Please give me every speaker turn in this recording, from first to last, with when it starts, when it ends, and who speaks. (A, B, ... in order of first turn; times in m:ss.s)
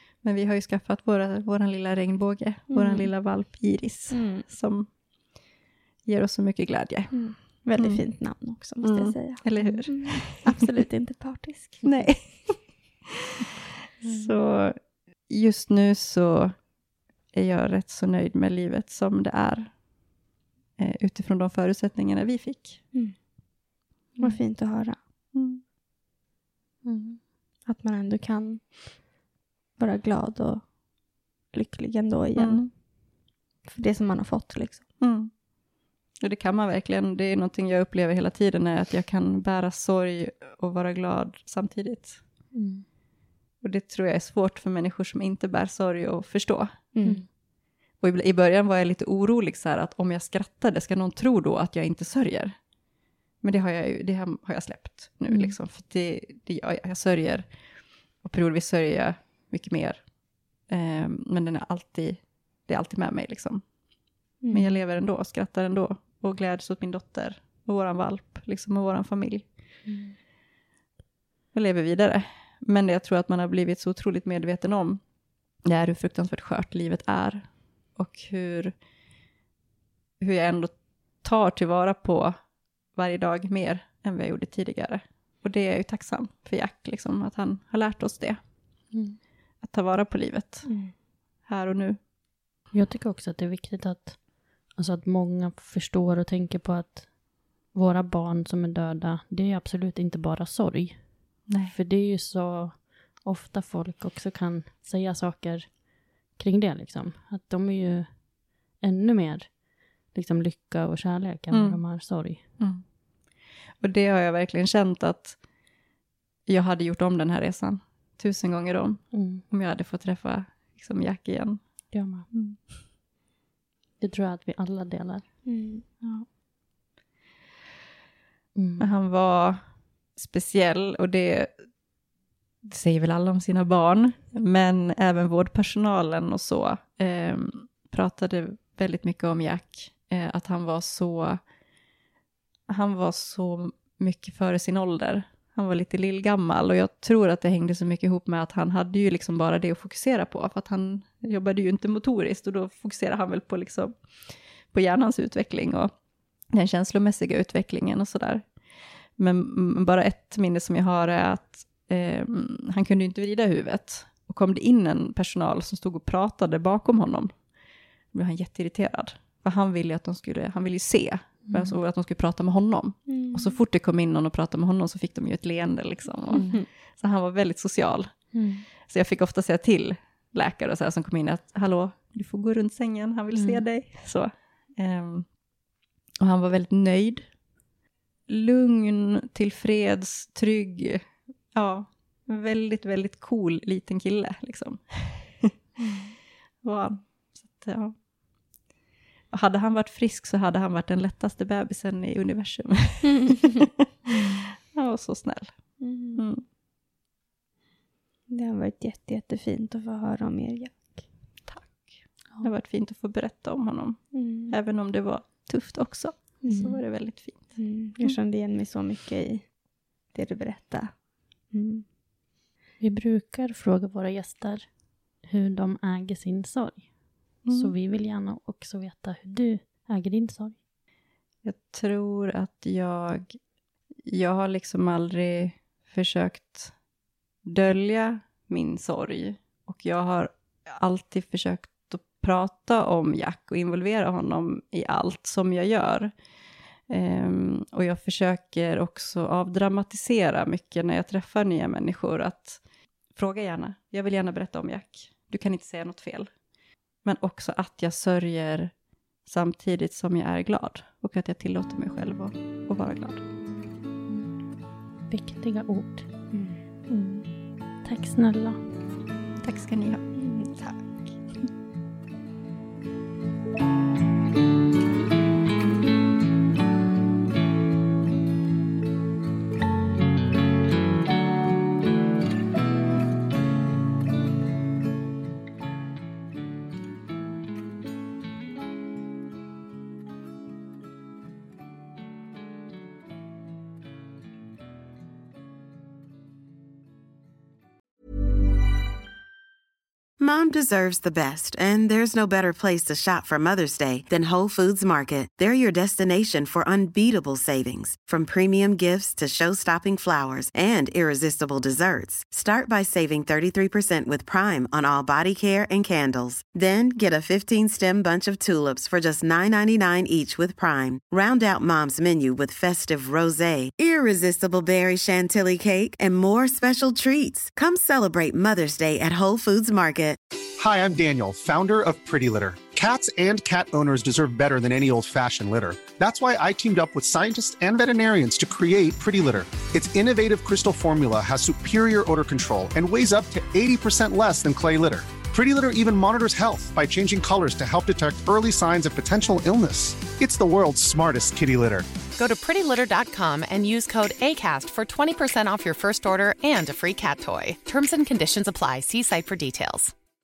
0:00.2-0:04.9 A
0:02.7-0:03.1 B
0:04.1-0:04.4 B
0:06.0-0:07.2 A
0:07.1-0:12.1 B
0:07.8-0:08.0 A
0:08.8-0:10.5 A
0:11.8-0:12.6 A
0:14.0-0:14.7 A
0:15.3-0:16.5 A
0:17.3-0:19.7 A
0:20.8-0:22.8 A
0:24.2-0:25.0 B
0:25.3-0:25.6 A
0:26.8-0:27.2 C
0:27.6-0:29.0 B
0:29.8-0:30.6 B
0:31.5-0:32.7 B
0:32.4-0:32.7 A
0:33.6-0:34.9 B
0:35.0-0:35.3 A
0:36.2-0:42.2 A
0:42.5-0:42.8 C
0:43.6-0:46.8 A
0:46.9-0:47.2 B
0:48.0-0:52.6 A
0:53.4-0:57.4 A
0:55.3-0:55.6 C
0:58.2-1:00.0 A
1:00.7-1:03.6 A
1:04.4-1:04.8 B
1:04.5-1:09.5 A
1:09.9-1:10.2 C
1:11.5-1:15.0 A
1:15.6-1:18.7 A
1:20.2-1:22.4 A
1:22.9-1:28.4 A
1:28.9-1:29.2 C
1:29.6-1:30.7 A
1:30.6-1:30.9 B
1:31.4-1:32.0 A
1:32.7-1:37.1 C
1:37.7-1:52.4 C
1:41.5-1:41.7 A
1:51.5-1:52.1 A
1:52.6-1:52.8 A
1:53.8-1:55.4 A
1:56.5-2:02.6 A
1:59.1-1:59.4 C
2:01.9-2:02.3 C
2:04.0-2:05.3 C
2:05.4-2:05.8 B
2:08.6-2:08.9 C
2:08.8-2:09.6 A
2:10.2-2:11.5 A
2:12.6-2:21.4 A
2:22.7-2:33.9 A
2:34.7-2:35.9 A
2:36.5-2:38.4 A
2:39.2-2:47.3 A
2:48.1-2:58.1 A
2:51.5-2:51.8 C
2:53.1-2:53.6 B
2:56.3-2:56.6 C
2:58.3-2:58.7 C
2:58.8-3:05.3 A
3:03.3-3:03.6 C
3:06.2-3:07.3 A
3:08.3-3:15.5 A
3:16.6-3:17.9 A
3:19.3-3:25.5 A
3:24.1-3:24.4 C
3:25.8-3:26.2 B
3:26.1-3:26.4 A
3:28.3-3:31.0 B
3:31.4-3:37.5 A
3:34.1-3:34.5 B
3:36.4-3:39.5 B
3:40.1-3:41.0 B
3:41.5-3:41.8 B
3:42.8-3:44.7 C
3:45.2-3:46.9 C
3:47.4-3:50.6 C
3:47.4-3:47.7 A
3:51.4-3:53.4 A
3:54.1-3:56.7 A
3:57.4-4:06.1 A
4:06.9-4:12.6 A
4:13.2-4:16.3 A
4:17.0-4:18.7 A
4:19.2-4:23.2 A
4:24.1-4:24.4 C
4:25.1-4:26.1 C
4:26.3-4:26.6 B
4:26.9-4:27.3 C
4:27.8-4:28.6 C
4:29.4-4:30.8 A
4:30.2-4:30.5 B
5:00.2-5:30.2 D
5:30.6-5:51.9 E
5:52.2-5:59.9 F